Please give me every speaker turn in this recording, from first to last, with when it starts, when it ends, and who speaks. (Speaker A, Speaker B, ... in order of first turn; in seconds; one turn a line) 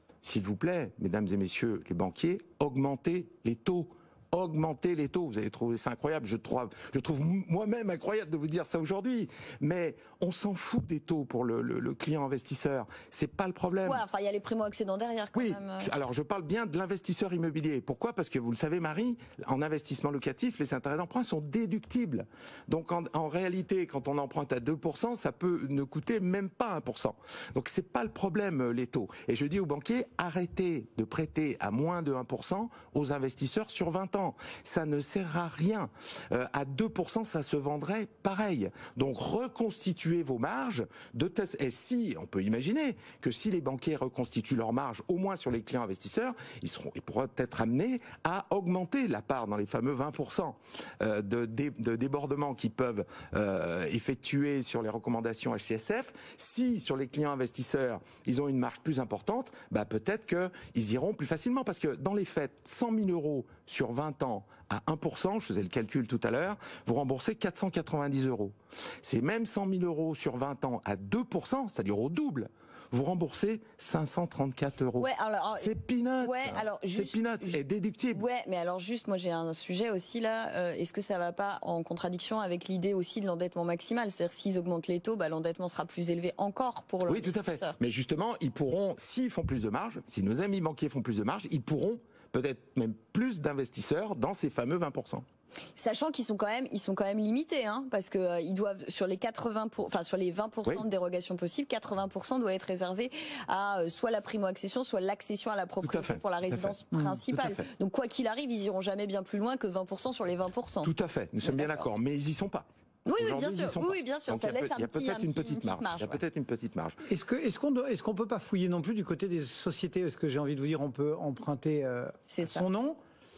Speaker A: 0.2-14.0
Speaker B: 13.8-15.9
Speaker A: 15.3-78.2
Speaker B: 75.0-77.6
Speaker B: 78.1-87.7
Speaker A: 87.0-95.2
Speaker B: 95.7-110.9
Speaker A: 105.8-106.8
Speaker A: 107.3-107.7
Speaker A: 110.8-117.0
Speaker B: 111.4-111.9
Speaker B: 113.0-116.2
Speaker C: 117.1-123.0
Speaker B: 122.3-122.7